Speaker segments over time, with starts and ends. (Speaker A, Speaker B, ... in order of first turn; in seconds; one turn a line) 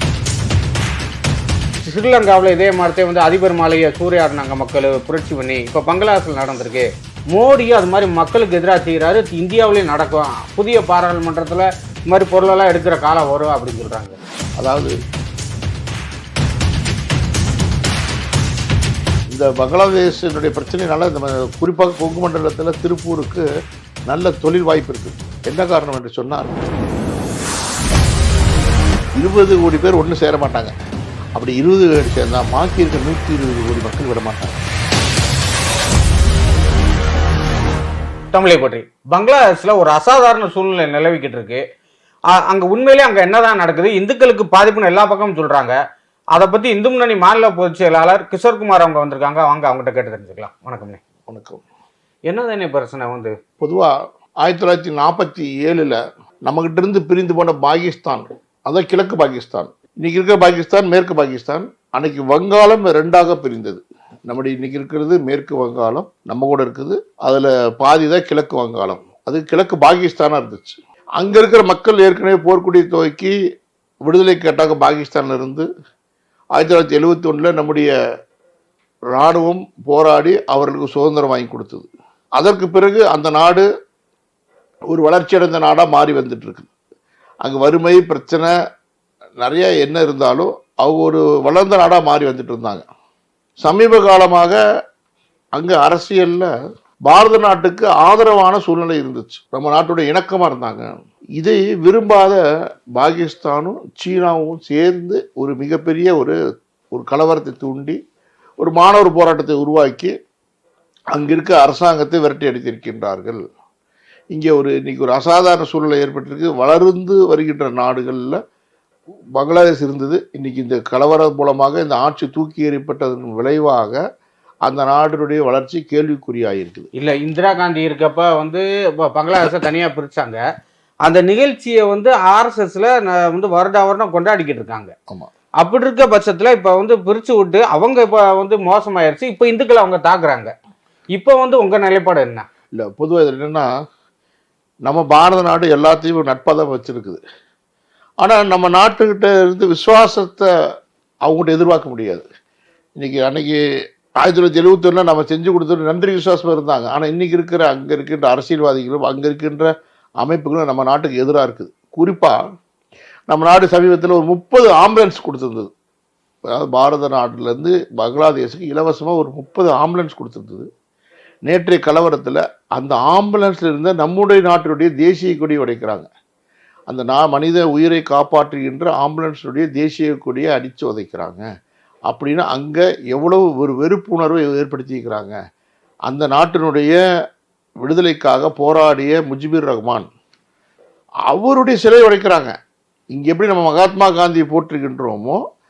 Speaker A: 1.8-14.2
Speaker B: 14.6-14.9
Speaker B: 19.3-23.5
Speaker B: 24.1-26.6
Speaker B: 29.2-30.7
Speaker B: 31.4-34.6
Speaker A: 38.3-41.6
Speaker A: 42.3-45.8
Speaker A: 46.4-51.0
Speaker B: 51.3-51.6
Speaker A: 52.3-53.3
Speaker B: 53.6-53.9
Speaker B: 54.4-73.3
Speaker B: 74.0-75.7
Speaker B: 76.5-77.9
Speaker B: 79.1-83.7
Speaker B: 84.9-86.7
Speaker B: 87.4-88.5
Speaker B: 89.4-92.8
Speaker B: 93.6-94.6
Speaker B: 95.5-96.5
Speaker B: 97.1-102.4
Speaker B: 102.9-106.3
Speaker B: 106.9-108.0
Speaker B: 108.6-110.1
Speaker B: 111.1-113.4
Speaker B: 114.3-118.4
Speaker B: 119.4-124.0
Speaker B: 124.7-126.9
Speaker A: 127.0-130.4
Speaker A: 131.1-134.9
Speaker A: 135.6-140.5
Speaker A: 141.2-142.4
Speaker B: 142.8-143.7
Speaker B: 144.9-147.2
Speaker B: 148.2-150.5
Speaker B: 151.2-152.2
Speaker B: 153.0-153.6
Speaker B: 154.2-159.7
Speaker B: 160.2-162.4
Speaker B: 163.3-165.7
Speaker B: 166.5-170.7
Speaker B: 171.4-176.1
Speaker B: 176.9-181.5
Speaker B: 182.1-185.4
Speaker B: 186.1-187.0
Speaker B: 187.8-190.1
Speaker B: 191.3-192.5
Speaker B: 193.1-195.4